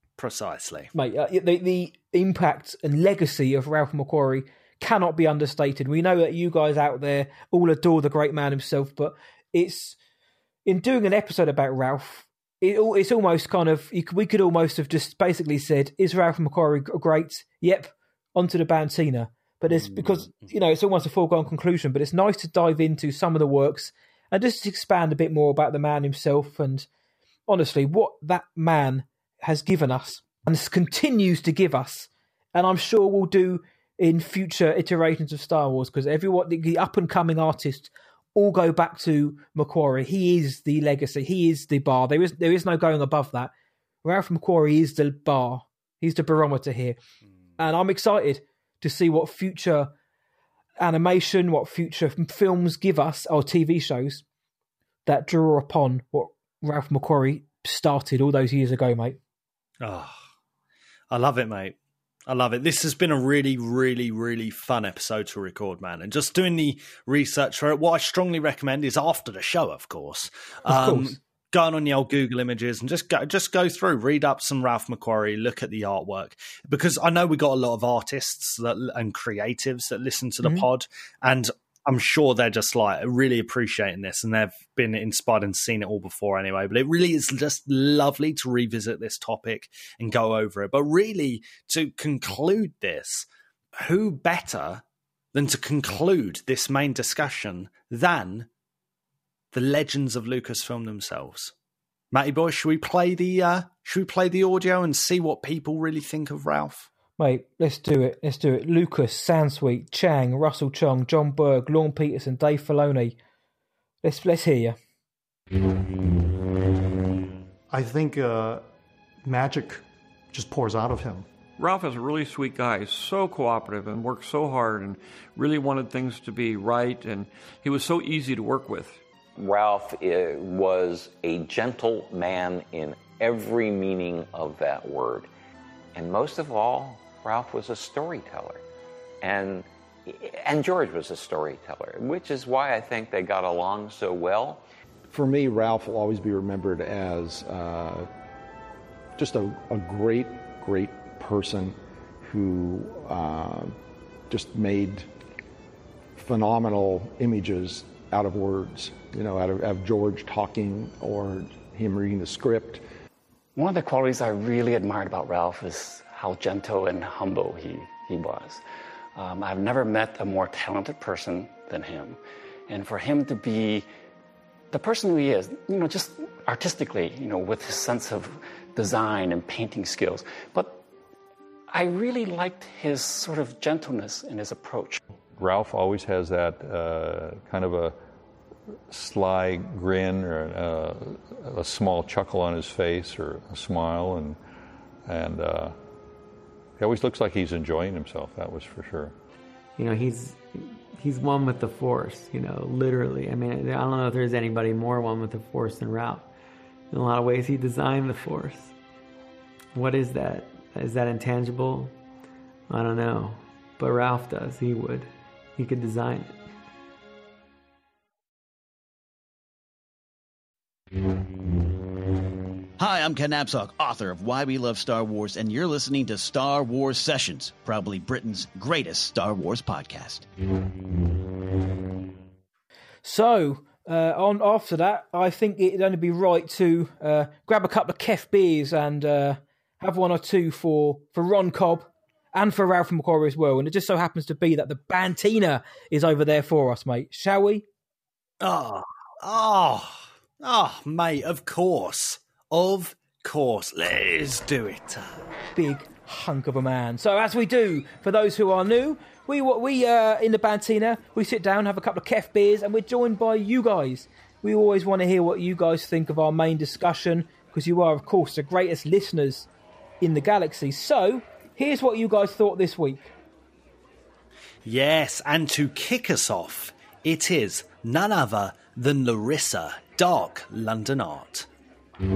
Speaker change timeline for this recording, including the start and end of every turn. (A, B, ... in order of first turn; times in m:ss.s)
0:00.2-0:00.9 A
0:01.0-0:10.0 B
0:10.6-0:26.9 B
0:19.7-0:20.6 A
0:27.5-0:43.5 B
0:44.0-0:47.0 B
0:47.6-0:49.9 B
0:50.8-0:54.2 B
0:55.1-0:59.2 B
0:59.8-1:00.2 A
1:01.1-1:01.8 A
1:02.3-1:33.3 A
1:10.7-1:11.2 B
1:33.8-1:38.5 A
1:39.5-1:41.5 A
1:42.1-1:46.9 A
1:47.2-1:53.2 B
1:54.0-1:54.8 B
1:57.7-1:58.6 C
1:59.3-1:59.8 C
2:00.3-2:01.2 C
2:01.6-2:09.0 D
2:09.4-2:15.3 E
2:16.0-2:18.6 E
2:19.2-2:24.6 E
2:25.1-2:28.1 F
2:29.2-2:33.8 F
2:34.3-2:35.1 F
2:36.2-2:42.8 F
2:43.6-2:48.6 G
2:49.2-2:53.9 G
2:54.7-3:00.8 G
3:01.7-3:05.0 G
3:05.4-3:08.0 H
3:08.9-3:14.4 H
3:15.1-3:15.8 H
3:16.8-3:19.2 H
3:19.8-3:26.3 I
3:26.9-3:28.8 I
3:29.7-3:32.0 I
3:32.7-3:36.4 I
3:42.8-3:50.3 J
3:53.0-4:07.6 B
4:08.4-4:15.2 A
4:15.6-4:29.5 B
4:30.0-4:33.1 B
4:34.6-4:41.5 A